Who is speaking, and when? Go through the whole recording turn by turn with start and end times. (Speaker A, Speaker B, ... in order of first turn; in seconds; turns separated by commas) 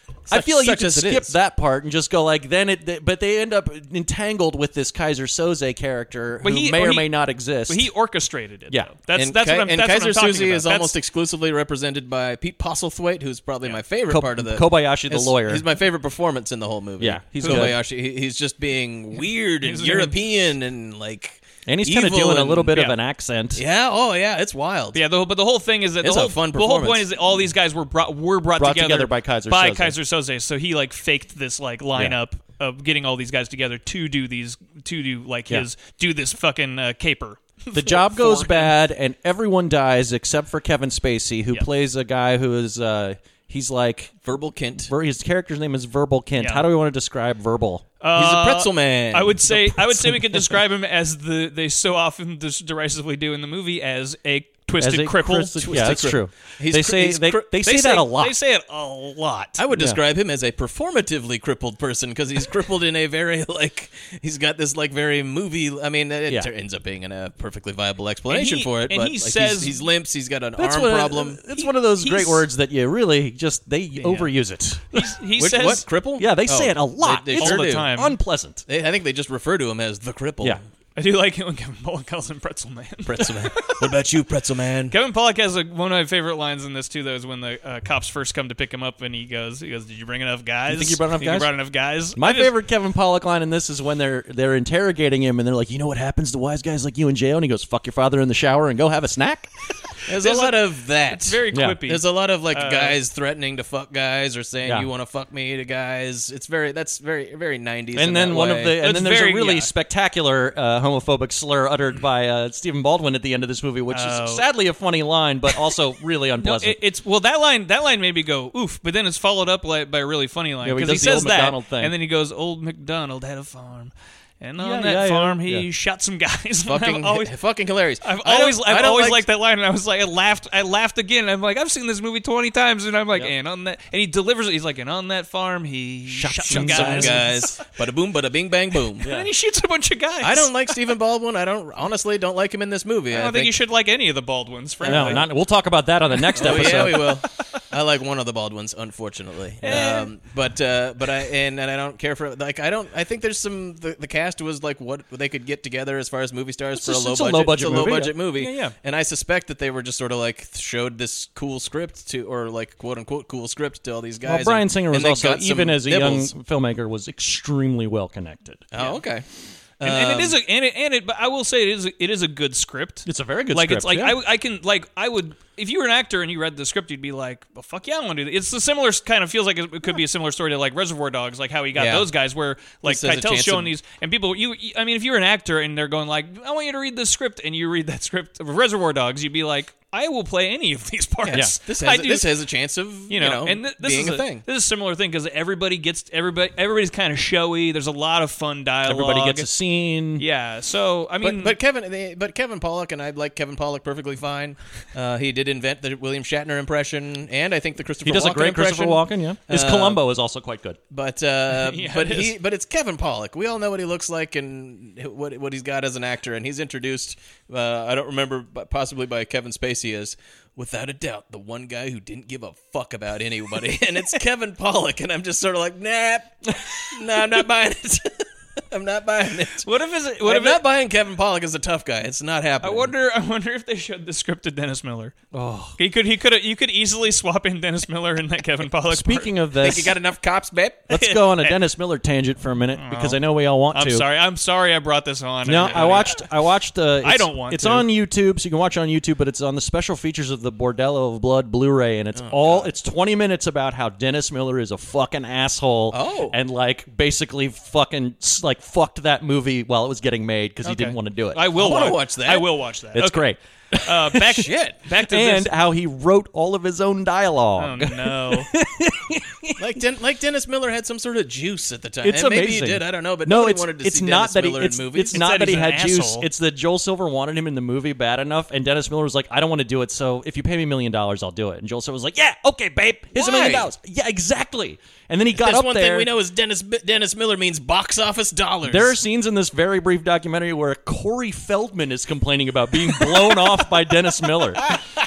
Speaker A: 0.3-1.3, Speaker B: 0.3-7.9, Speaker C: 6.4-7.1, Speaker C: 7.7-10.9, Speaker A: 9.2-22.7, Speaker B: 14.1-15.6, Speaker B: 17.0-17.8, Speaker C: 17.4-17.7, Speaker C: 19.6-20.1, Speaker B: 21.6-23.6, Speaker A: 23.6-25.0, Speaker C: 24.9-38.7, Speaker A: 26.0-27.1, Speaker B: 28.6-29.9, Speaker B: 37.7-44.1, Speaker A: 44.2-44.9, Speaker B: 44.8-47.8, Speaker C: 46.4-46.7, Speaker C: 48.0-56.0, Speaker A: 48.1-49.5, Speaker B: 49.5-50.6, Speaker B: 54.8-58.4, Speaker A: 55.6-57.6, Speaker C: 57.6-59.6, Speaker A: 59.6-71.4, Speaker B: 59.7-60.0, Speaker C: 68.3-69.8, Speaker B: 70.6-75.1, Speaker C: 71.5-72.4, Speaker C: 74.0-74.3, Speaker C: 74.9-75.8, Speaker A: 75.4-77.9, Speaker B: 76.2-78.6, Speaker C: 77.4-78.1, Speaker A: 78.7-80.6, Speaker C: 81.0-83.8, Speaker A: 83.0-84.9, Speaker C: 84.9-92.5, Speaker B: 90.7-91.5, Speaker B: 92.1-99.5, Speaker A: 100.1-108.8, Speaker C: 100.2-103.0, Speaker B: 101.5-101.8, Speaker B: 107.9-116.8, Speaker C: 108.8-109.7, Speaker C: 113.9-114.4, Speaker C: 116.4-127.3, Speaker B: 120.6-121.9, Speaker B: 124.6-125.6, Speaker A: 126.7-129.2, Speaker C: 128.0-137.5, Speaker B: 136.1-137.3, Speaker A: 136.5-139.1, Speaker C: 139.0-140.5, Speaker A: 140.2-143.6, Speaker C: 143.1-145.2, Speaker A: 144.8-145.2, Speaker B: 144.8-147.2, Speaker C: 146.2-147.6, Speaker A: 146.3-166.3, Speaker C: 149.6-150.1, Speaker B: 156.8-158.1, Speaker C: 158.4-158.7, Speaker B: 164.2-168.6, Speaker A: 168.7-169.2, Speaker C: 168.7-169.0, Speaker A: 169.8-170.4, Speaker C: 169.8-192.3, Speaker B: 173.0-174.2, Speaker A: 181.7-182.1, Speaker A: 182.8-183.7, Speaker A: 191.2-194.4, Speaker C: 193.1-199.5, Speaker B: 198.8-200.2, Speaker C: 200.2-201.6, Speaker A: 201.2-210.0, Speaker B: 208.0-210.8, Speaker A: 210.9-229.7, Speaker C: 211.5-212.3, Speaker C: 229.6-230.6, Speaker A: 230.2-232.9, Speaker C: 232.6-235.2, Speaker B: 235.3-235.8, Speaker C: 235.8-239.3, Speaker B: 238.9-240.0, Speaker A: 239.6-240.9, Speaker B: 240.9-244.0, Speaker C: 240.9-241.6, Speaker C: 242.7-246.3, Speaker B: 245.4-261.7, Speaker C: 247.0-247.9, Speaker A: 252.1-252.7, Speaker A: 255.9-256.3, Speaker C: 260.6-265.5, Speaker A: 261.6-262.5, Speaker B: 262.9-264.4, Speaker A: 264.4-264.8, Speaker B: 265.1-269.8, Speaker C: 267.6-268.5, Speaker A: 269.6-275.5, Speaker B: 272.0-286.1, Speaker C: 275.1-276.3, Speaker A: 283.1-283.7, Speaker A: 285.4-288.9, Speaker B: 288.6-294.7